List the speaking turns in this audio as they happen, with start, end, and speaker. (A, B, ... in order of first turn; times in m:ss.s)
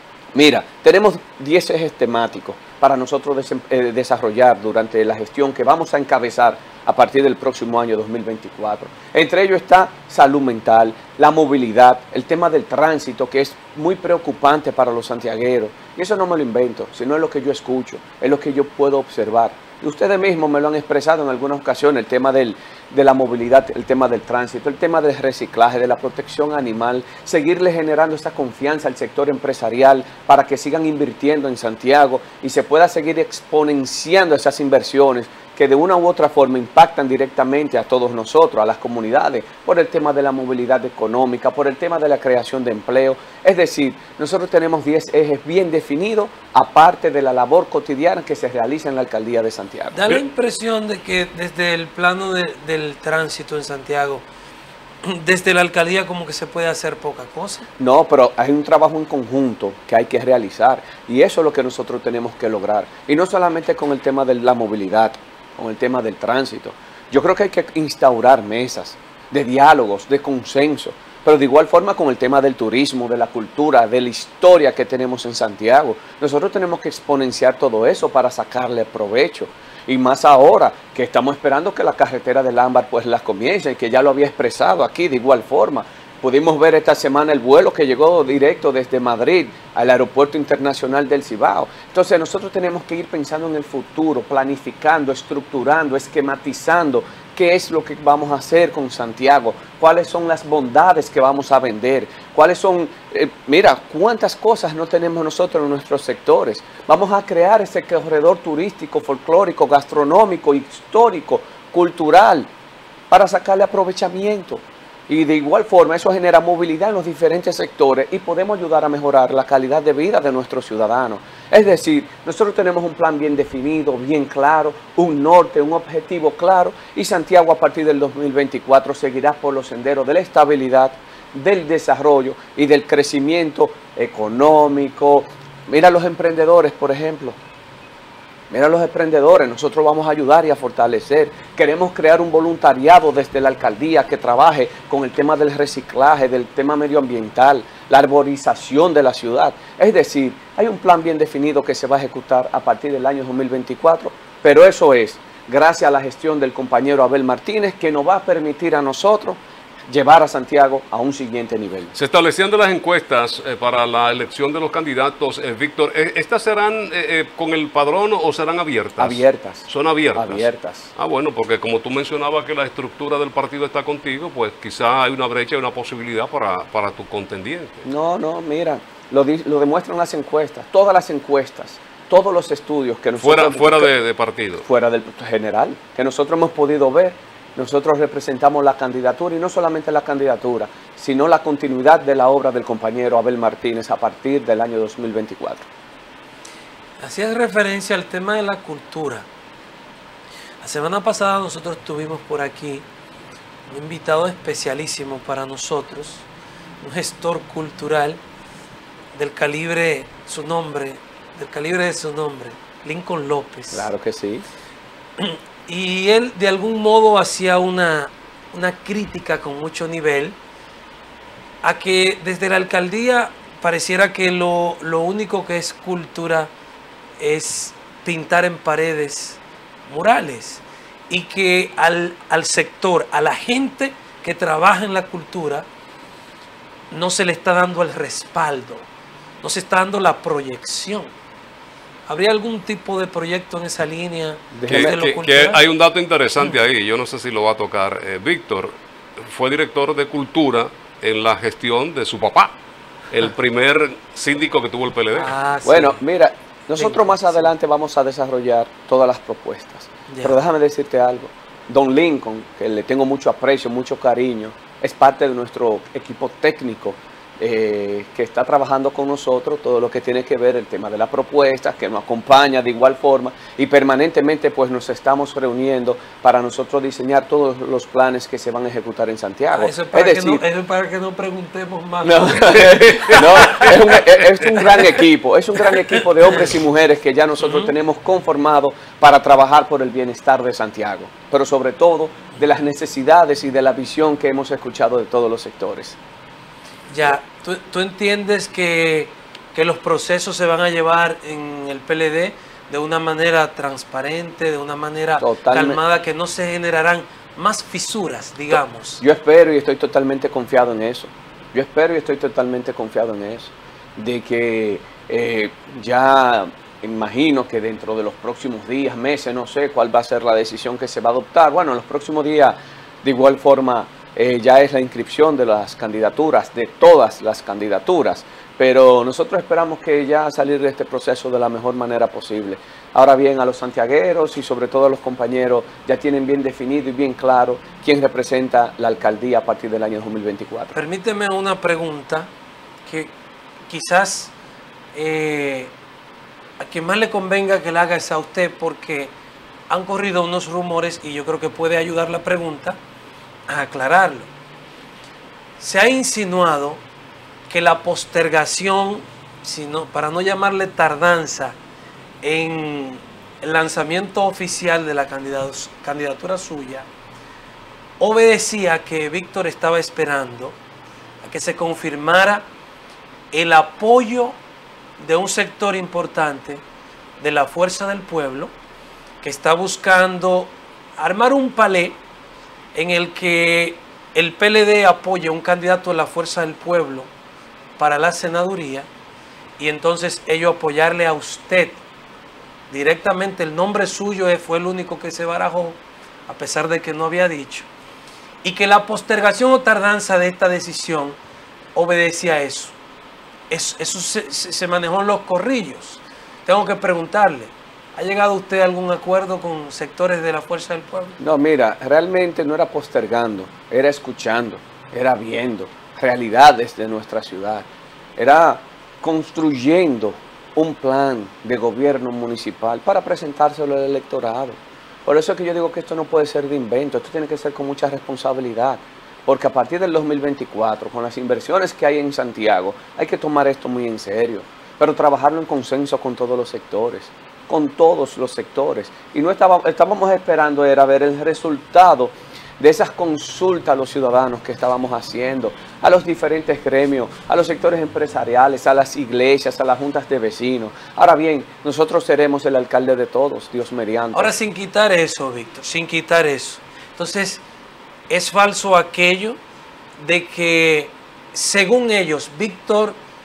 0:00.3-0:50.2 A
0:49.9-0:54.2 B
0:55.0-0:57.7 B
0:57.8-1:52.5 A
1:53.1-2:17.4 A
2:18.5-2:41.9 A
2:42.0-2:57.9 C
2:49.0-2:50.9 A
2:57.8-3:03.9 A
3:03.2-3:04.6 C
3:04.6-3:15.7 A
3:17.0-3:19.3 B
3:20.6-3:22.8 B
3:23.7-3:26.3 B
3:26.8-3:28.2 B
3:29.1-3:33.9 B
3:33.7-3:34.4 A
3:35.2-3:40.4 B
3:41.6-3:46.5 B
3:47.2-3:55.7 B
3:56.9-3:58.9 B
3:59.4-4:01.1 B
4:02.1-4:05.6 B
4:04.5-4:05.0 A
4:04.7-4:12.5 C
4:13.1-4:15.3 C
4:15.2-4:16.0 B
4:15.6-4:40.4 A
4:16.8-4:17.3 B
4:20.1-4:20.4 B
4:39.5-4:43.9 B
4:42.0-4:56.0 A
4:42.7-4:43.9 C
4:46.3-4:46.6 B
4:47.4-4:47.7 B
4:56.9-5:09.0 B
5:05.2-5:05.8 A
5:09.0-5:40.8 A
5:40.7-5:42.3 B
5:42.9-5:43.1 B
5:43.7-5:44.3 B
5:44.9-5:45.7 B
5:46.6-5:49.1 B
5:49.7-5:52.8 B
5:53.5-5:54.3 B
5:55.6-5:56.8 B
5:57.5-6:01.6 B
6:02.2-6:06.9 B
6:08.0-6:10.6 B
6:11.2-6:12.5 B
6:13.3-6:14.4 B
6:15.0-6:16.6 B
6:17.2-6:18.5 B
6:19.2-6:22.0 B
6:22.7-6:27.1 B
6:27.8-6:28.9 B
6:29.6-6:31.8 B
6:32.7-6:37.7 B
6:38.4-6:41.2 B
6:41.8-6:42.8 B
6:43.5-6:51.2 B
6:51.2-7:34.3 A
7:34.1-7:37.4 B
7:38.1-7:39.4 B
7:40.0-7:43.0 B